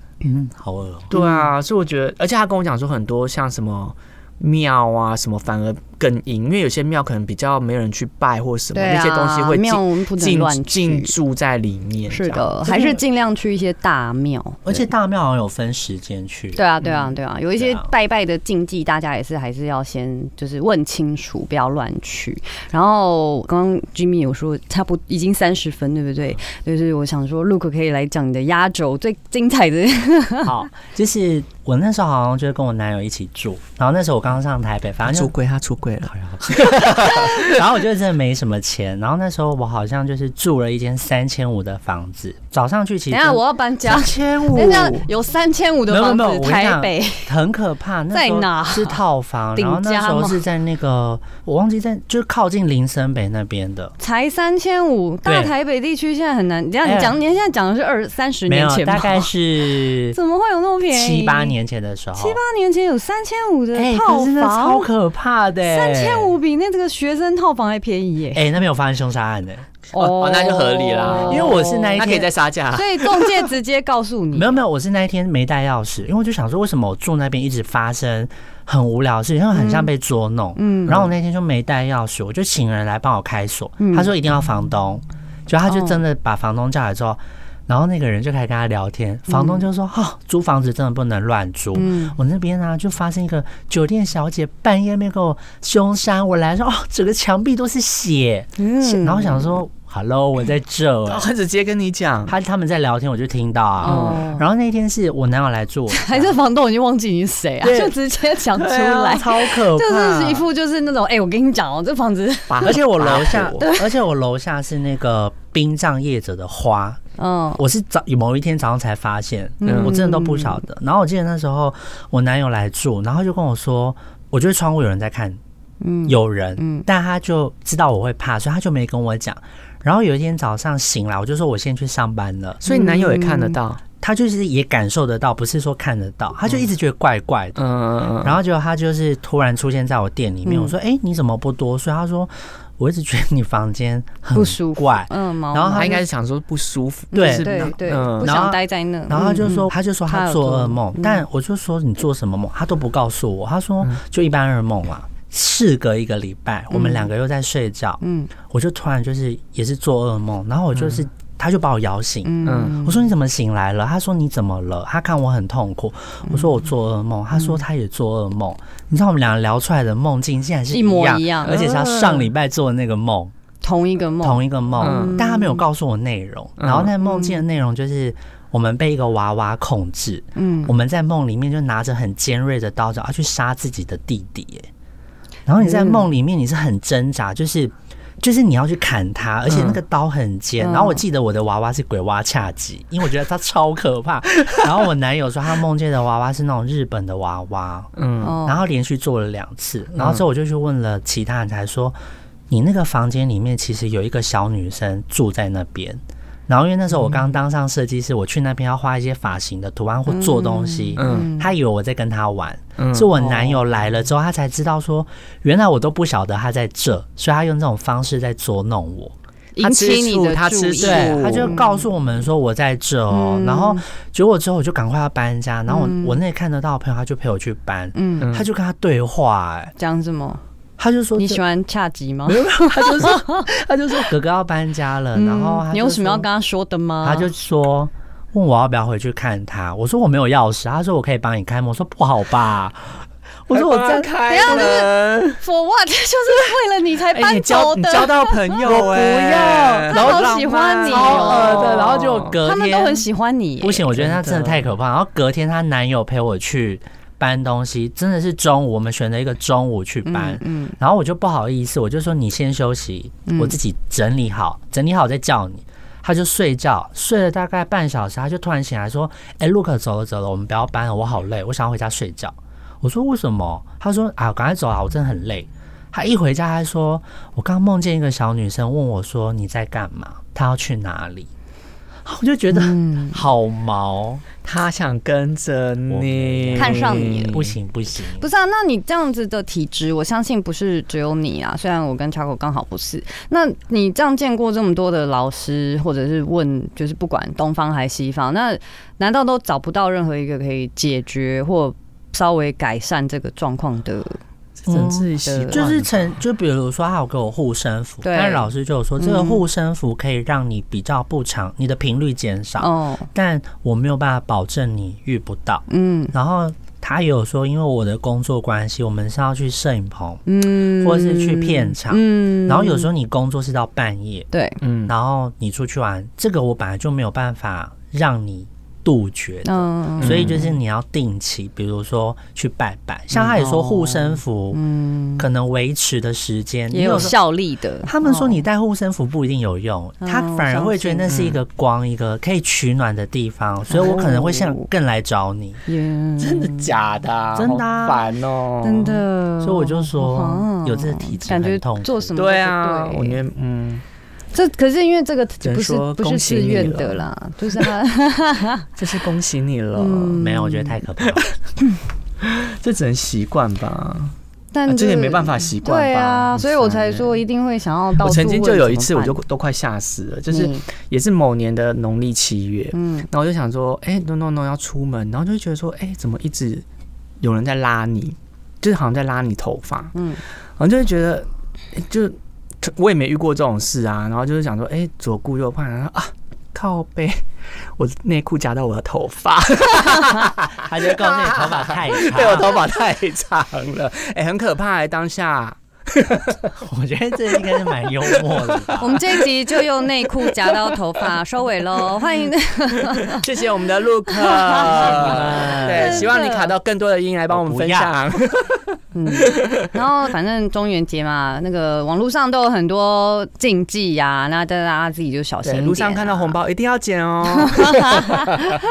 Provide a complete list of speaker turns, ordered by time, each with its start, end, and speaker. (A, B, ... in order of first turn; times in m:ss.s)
0:00.2-0:01.1 A
0:01.1-0:01.5 B
0:01.1-0:12.6 C
0:08.7-0:11.1 B
0:12.1-0:14.8 B
0:12.6-0:13.0 A
0:14.6-0:16.6 A
0:16.5-0:30.5 B
0:17.6-0:17.9 A
0:30.4-0:35.3 A
0:35.1-0:37.6 C
0:36.1-0:44.9 A
0:43.1-0:47.3 B
0:44.6-0:45.1 C
0:45.9-0:53.9 A
0:48.1-0:49.0 B
0:49.6-0:50.4 B
0:54.0-0:59.3 B
0:55.2-0:55.5 A
0:56.8-0:57.1 A
0:58.5-1:00.2 A
1:00.1-1:01.5 B
1:00.9-1:02.4 A
1:02.2-1:04.9 B
1:03.8-1:06.4 A
1:05.6-1:08.4 B
1:08.3-1:09.7 A
1:09.9-1:13.5 C
1:09.9-1:14.6 B
1:11.2-1:12.3 A
1:14.3-1:41.3 A
1:19.5-1:19.9 B
1:20.6-1:21.0 B
1:23.8-1:24.1 B
1:25.7-1:26.0 B
1:29.3-1:29.6 B
1:31.8-1:32.1 B
1:38.6-1:39.6 B
1:41.1-1:42.4 C
1:42.3-1:46.4 A
1:43.8-1:44.4 B
1:43.8-1:44.3 C
1:45.9-1:52.8 B
1:47.6-1:48.0 A
1:48.6-1:49.1 C
1:48.6-1:50.4 A
1:52.5-1:53.7 C
1:52.6-1:57.0 A
1:53.6-1:53.9 B
1:57.2-1:57.6 B
1:57.6-2:05.4 A
1:59.6-2:00.6 B
1:59.6-2:00.0 C
2:05.8-2:06.9 B
2:06.1-2:12.6 A
2:12.6-2:13.8 C
2:12.6-2:13.6 B
2:14.0-2:17.6 A
2:17.6-2:18.4 C
2:18.2-2:25.9 A
2:20.4-2:20.8 B
2:24.3-2:26.0 B
2:25.7-2:28.4 C
2:27.1-2:31.2 B
2:27.1-2:53.3 A
2:36.7-2:37.1 B
2:38.0-2:38.3 B
2:40.7-2:41.1 C
2:42.2-2:43.1 B
2:42.5-2:42.8 C
2:50.7-2:51.6 B
2:51.5-2:52.3 C
2:53.6-2:55.6 B
2:54.2-3:04.7 A
2:54.8-2:55.2 C
2:56.6-2:56.9 C
2:57.0-2:57.4 B
3:00.4-3:00.7 B
3:05.5-3:17.9 A
3:05.6-3:06.0 B
3:09.5-3:09.8 C
3:10.6-3:11.0 B
3:18.0-3:18.4 C
3:18.2-3:18.6 B
3:18.4-3:22.0 A
3:20.0-3:20.2 C
3:22.5-3:39.1 A
3:30.1-3:31.5 B
3:31.0-3:31.3 C
3:32.8-3:33.1 C
3:33.2-3:33.6 B
3:39.6-3:41.9 B
3:39.6-3:41.6 C
3:40.8-3:49.7 A
3:43.1-3:43.8 B
3:45.7-3:46.2 B
3:48.0-3:48.3 B
3:48.2-3:48.5 C
3:49.8-3:50.4 B
3:50.8-3:51.4 A
3:51.2-3:53.4 B
3:52.3-3:56.3 A
3:55.1-3:57.3 B
3:57.0-4:04.8 A
4:03.5-4:05.4 C
4:04.3-4:13.9 B
4:07.1-4:12.4 C
4:08.6-4:13.0 A
4:13.6-4:41.3 A
4:13.9-4:14.6 C
4:20.0-4:20.8 B
4:23.3-4:23.6 B
4:42.0-4:44.2 A
4:42.5-4:43.2 B
4:44.4-4:47.5 C
4:45.9-4:48.3 A
4:46.6-4:47.4 B
4:48.2-5:04.2 B
5:04.7-5:06.2 C
5:04.7-5:24.3 A
5:05.2-5:05.6 B
5:08.0-5:09.4 B
5:12.6-5:13.1 B
5:15.7-5:16.1 B
5:20.3-5:22.9 B
5:24.3-5:24.6 B
5:24.6-5:24.9 C
5:24.9-5:34.6 A
5:29.4-5:30.4 B
5:30.0-5:30.4 C
5:33.3-5:35.3 B
5:35.2-5:37.2 A
5:36.7-5:38.4 B
5:37.8-5:45.6 A
5:40.0-5:41.0 B
5:41.1-5:41.4 C
5:43.7-5:44.7 B
5:45.7-5:46.7 B
5:46.2-5:49.0 C
5:47.4-5:48.0 A
5:48.6-5:53.2 B
5:49.4-5:52.1 A
5:52.2-5:53.8 C
5:54.3-5:58.7 B
5:55.4-5:57.7 C
5:58.8-6:00.2 C
5:59.7-6:00.8 B
6:00.2-6:01.3 A
6:01.0-6:01.3 C
6:02.2-6:04.1 C
6:04.5-6:09.2 B
6:04.7-6:07.2 C
6:08.0-6:16.6 C
6:10.3-6:10.6 B
6:12.7-6:13.1 B
6:17.2-6:20.0 C
6:20.0-6:20.2 B
6:20.6-6:27.2 C
6:27.8-6:36.5 C
6:30.6-6:32.6 A
6:36.6-6:39.0 A
6:38.0-6:39.1 C
6:38.8-6:43.2 B
6:40.3-6:40.8 C
6:43.1-6:49.7 C
6:44.1-6:46.5 B
6:44.7-6:46.2 A
6:47.3-6:48.0 A
6:48.9-6:56.4 B
6:55.4-6:58.4 C
6:57.3-6:58.5 B